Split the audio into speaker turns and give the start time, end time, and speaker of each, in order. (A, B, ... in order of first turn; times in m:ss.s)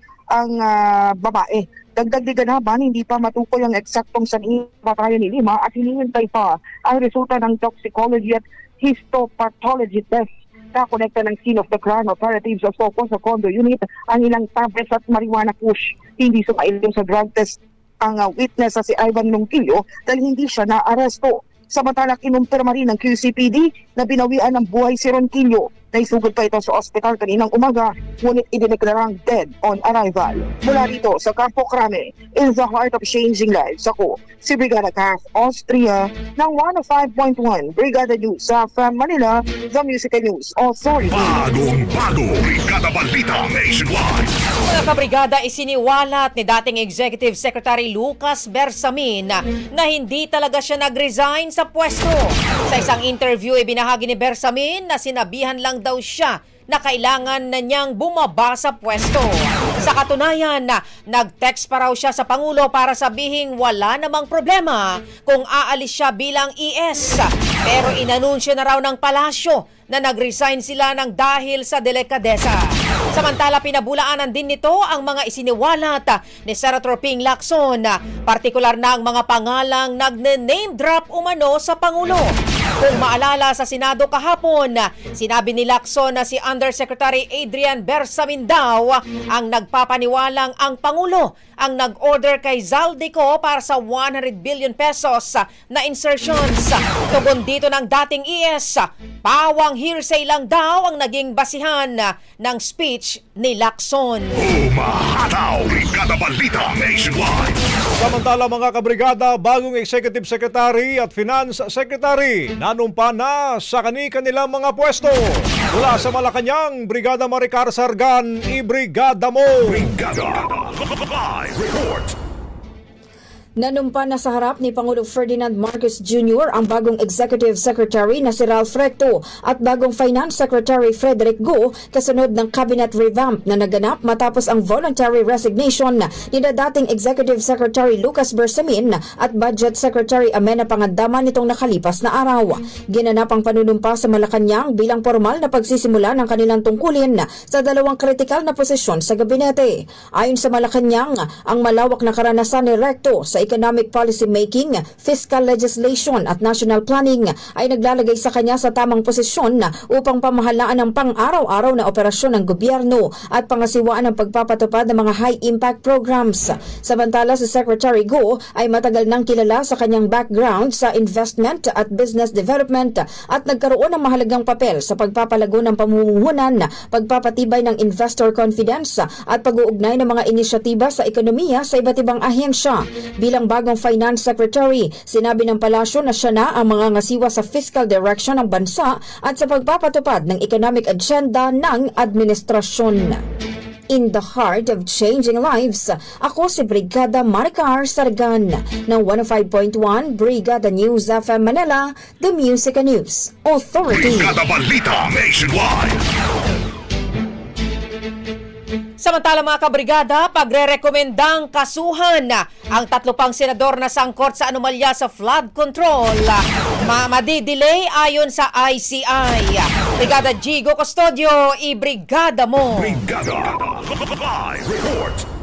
0:00.3-0:41.4 A
0:41.1-0:44.3 B
0:44.7-1:44.3 C
1:44.4-1:47.6 B
1:48.0-1:59.9 D
1:59.6-2:02.1 B
2:03.6-3:13.2 E
3:13.9-3:24.3 E
3:23.9-3:26.0 B
3:29.0-3:43.0 C
3:42.7-3:45.2 B